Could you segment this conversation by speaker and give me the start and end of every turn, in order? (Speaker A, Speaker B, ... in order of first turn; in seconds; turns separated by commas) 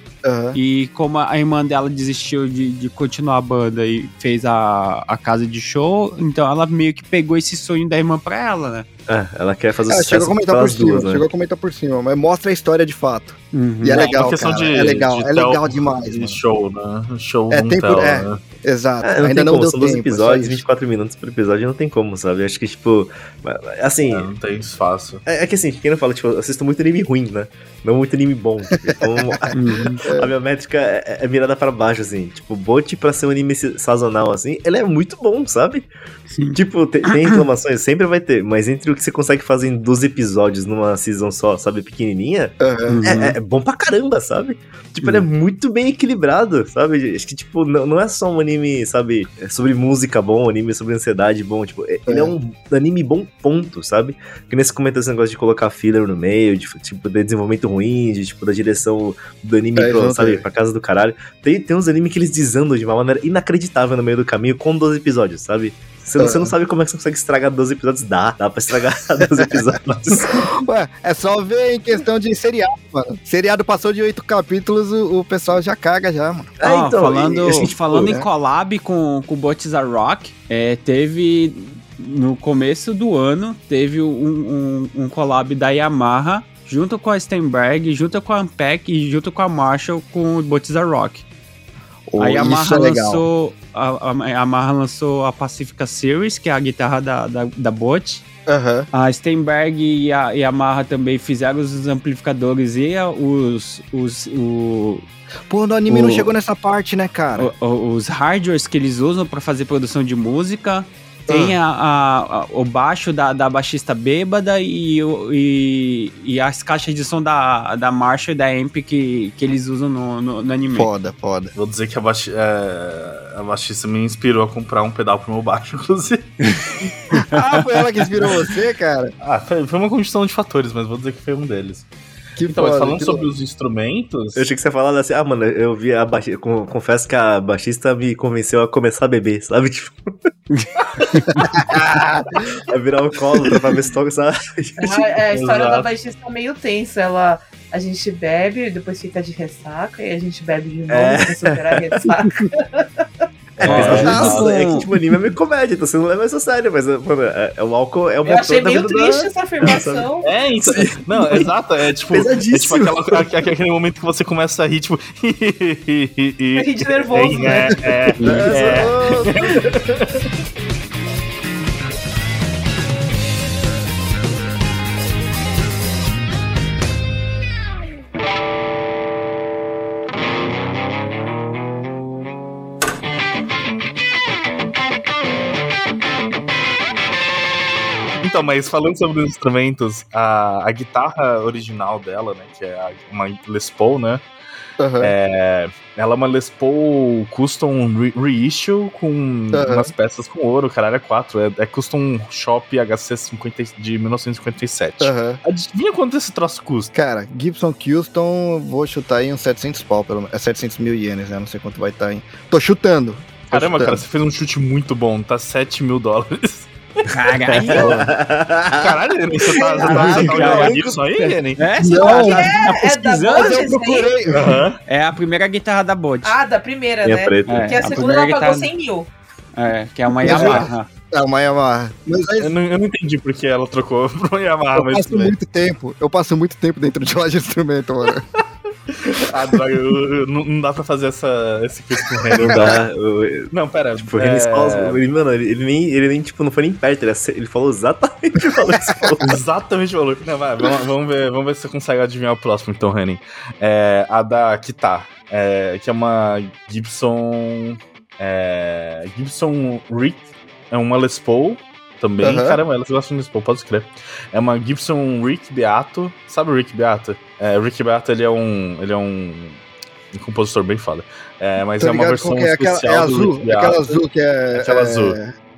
Speaker A: 0.2-0.6, Speaker B: 0.5-8.8, Speaker C: 9.1-11.2, Speaker A: 9.9-16.4, Speaker B: 13.5-14.1, Speaker D: 13.9-18.4, Speaker A: 17.5-20.6, Speaker C: 19.0-24.3, Speaker D: 24.1-25.2, Speaker C: 25.2-29.5, Speaker A: 28.9-29.5, Speaker B: 29.5-30.0, Speaker A: 30.0-30.3, Speaker C: 30.1-35.9, Speaker B: 36.3-37.4, Speaker C: 36.5-70.5, Speaker A: 42.6-43.0, Speaker B: 42.9-43.4, Speaker A: 52.1-52.3, Speaker A: 59.8-60.4, Speaker A: 66.2-66.5, Speaker A: 70.4-76.5, Speaker C: 76.6-78.2, Speaker B: 76.6-91.2, Speaker A: 78.0-78.3, Speaker A: 92.1-93.2, Speaker B: 92.2-98.2, Speaker A: 98.5-98.9, Speaker B: 98.9-105.0, Speaker A: 105.5-107.5, Speaker B: 105.9-106.3, Speaker B: 107.4-120.9, Speaker A: 111.3-111.5, Speaker A: 120.7-121.5, Speaker D: 121.5-126.9, Speaker A: 127.3-129.1, Speaker D: 129.2-131.9, Speaker A: 132.4-133.2, Speaker D: 132.4-134.4, Speaker C: 134.3-140.1, Speaker B: 140.5-141.5, Speaker D: 140.8-141.9, Speaker C: 141.4-145.1, Speaker A: 141.5-141.9, Speaker E: 144.8-152.9, Speaker D: 145.3-145.9, Speaker C: 150.9-152.1, Speaker D: 153.6-154.7, Speaker C: 153.6-160.1, Speaker B: 153.6-154.9, Speaker A: 153.7-154.5, Speaker E: 158.2-160.2, Speaker D: 160.2-170.3, Speaker C: 160.6-161.5, Speaker C: 162.1-163.3, Speaker E: 166.6-167.8, Speaker A: 168.2-169.3, Speaker D: 188.2-194.2, Speaker A: 194.8-195.1, Speaker D: 195.0-206.9, Speaker A: 199.5-199.9, Speaker A: 205.0-205.4, Speaker A: 206.9-214.0, Speaker D: 213.5-216.7, Speaker B: 217.1-218.0, Speaker C: 217.5-221.0, Speaker A: 217.8-218.0, Speaker D: 218.7-221.6, Speaker A: 219.8-220.8, Speaker B: 220.2-220.7, Speaker B: 221.6-223.7, Speaker A: 221.8-224.6, Speaker E: 221.9-224.2, Speaker D: 224.3-224.8, Speaker B: 224.8-226.4, Speaker E: 226.2-229.1, Speaker C: 227.0-227.7, Speaker B: 227.5-228.7, Speaker B: 229.6-230.9, Speaker A: 230.2-232.5, Speaker D: 230.2-230.7, Speaker D: 232.4-235.3, Speaker A: 234.7-238.2, Speaker D: 238.9-242.8, Speaker C: 242.3-249.4, Speaker D: 243.5-245.0, Speaker D: 249.2-269.6, Speaker A: 262.2-262.6, Speaker D: 270.1-273.9, Speaker A: 271.8-275.3, Speaker D: 274.5-275.2